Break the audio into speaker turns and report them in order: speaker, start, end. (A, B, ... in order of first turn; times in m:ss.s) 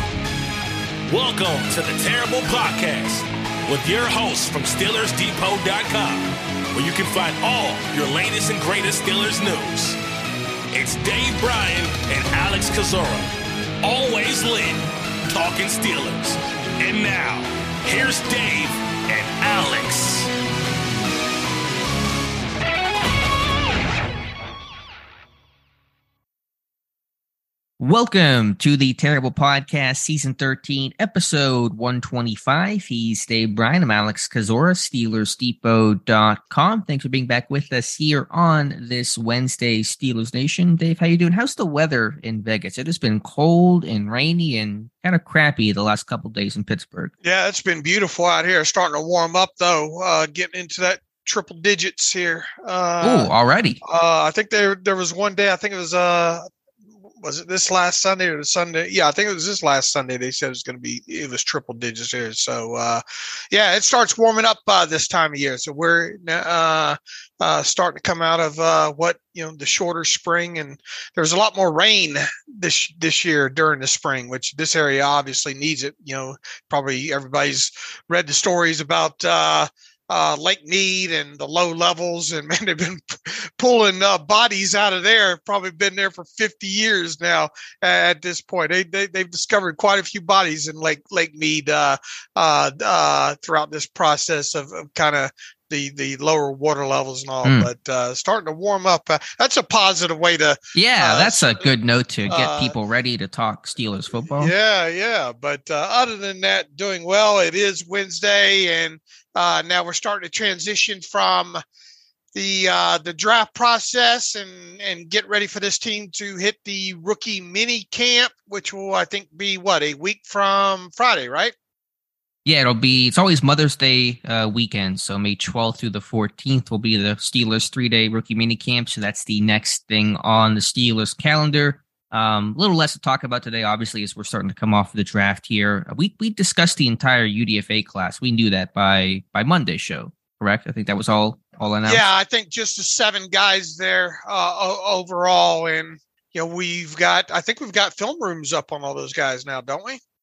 0:01.1-0:10.0 A
0:10.7-0:13.3 A
0:13.8-0:20.3 A
0:27.8-0:47.1 B
0:47.2-0:53.3 C
0:53.0-0:53.8 B
0:53.8-0:56.4 C
0:57.2-1:41.7 C
1:37.4-1:37.7 B
1:40.7-1:44.5 B
1:42.3-1:42.7 C
1:44.3-1:51.6 C
1:52.3-2:01.5 C
2:02.4-2:22.0 B
2:21.8-2:30.0 C